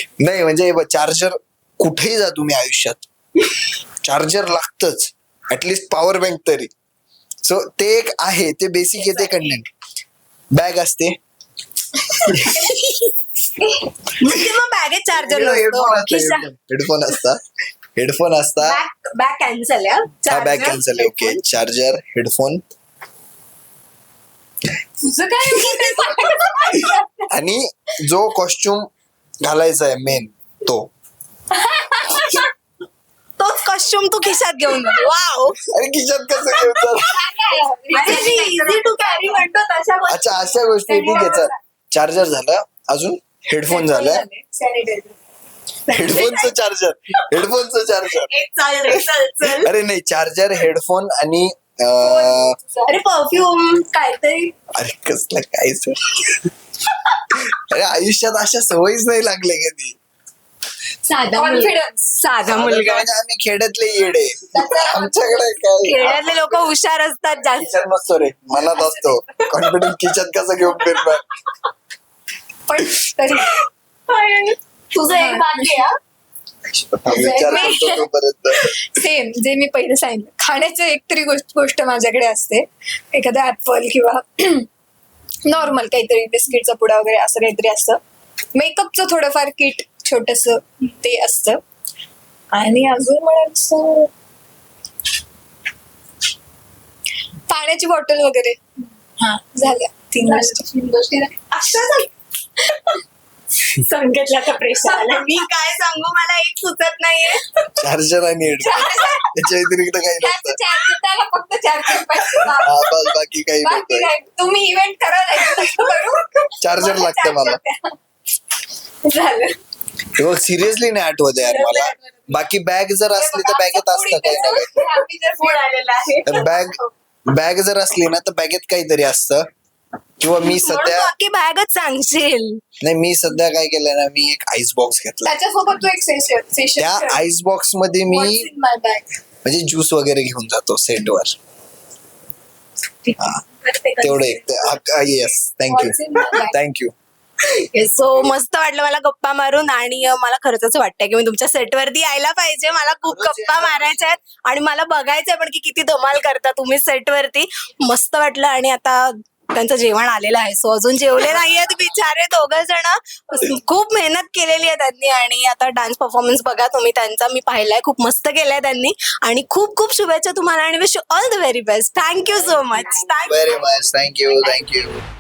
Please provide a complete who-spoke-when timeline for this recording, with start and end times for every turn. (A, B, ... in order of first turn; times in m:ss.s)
0:00.2-0:03.0 A
0:04.0-0:06.7 A
0:07.4-0:09.7 A
0:09.0-0:09.6 B
0:10.5-0:11.2 A
0:12.2-0:12.7 A
0:12.6-0:13.1 B
0:14.2-0:16.5 B
0:15.2-0:17.4 A
0:18.0-0:18.8 A
0:18.6-0:21.4 B
0:20.3-0:22.6 A
0:25.0-0:27.3 C
0:25.5-0:26.7 B
0:27.3-0:28.9 A
0:29.4-0:30.9 A
0:31.5-0:32.5 C
0:33.4-0:35.6 B
0:35.7-0:37.2 A
0:37.1-0:39.5 C
0:37.9-0:40.6 B
0:40.1-0:44.2 A
0:40.8-0:41.6 C
0:43.7-0:45.2 C
0:45.9-0:46.6 B
0:45.9-0:48.3 A
0:48.3-0:49.7 B
0:49.4-0:52.6 A
0:52.0-0:53.0 C
0:52.9-0:54.5 B
0:54.8-0:56.0 A
0:57.4-1:00.0 A
1:01.1-1:03.1 B
1:01.3-1:02.2 C
1:02.4-1:06.7 A
1:04.5-1:05.6 C
1:05.8-1:07.8 B
1:07.5-1:11.2 A
1:08.7-1:09.1 C
1:09.6-1:09.9 B
1:10.8-1:11.1 B
1:12.7-1:13.5 C
1:13.5-1:16.0 B
1:15.1-1:15.8 C
1:16.7-1:18.7 A
1:17.1-1:17.7 B
1:17.4-1:18.1 C
1:18.9-1:24.7 C
1:25.4-1:28.0 C
1:28.6-1:31.6 C
1:32.5-1:34.1 C
1:37.5-1:38.6 C
1:39.2-1:40.7 C
1:40.2-1:42.1 B
1:43.7-1:47.7 B
1:44.9-1:45.3 C
1:47.8-1:50.6 A
1:48.6-1:49.2 C
1:48.7-1:49.1 B
1:50.2-1:53.0 C
1:52.2-1:52.5 B
1:52.6-1:54.1 A
1:53.6-1:58.0 C
1:55.5-1:56.1 B
1:56.6-1:57.6 A
1:59.0-1:59.5 C
2:00.2-2:04.7 A
2:01.4-2:01.9 B
2:03.2-2:05.6 C
2:04.3-2:06.7 B
2:06.2-2:06.8 A
2:07.3-2:09.5 A
2:10.2-2:11.1 A
2:10.4-2:12.6 B
2:12.8-2:15.4 A
2:15.2-2:17.2 C
2:16.8-2:18.5 A
2:18.1-2:19.0 C
2:19.4-2:21.3 A
2:23.0-2:24.8 B
2:24.0-2:26.9 A
2:25.7-2:26.6 C
2:27.4-2:53.7 B
2:33.0-2:34.2 A
2:53.2-2:55.0 A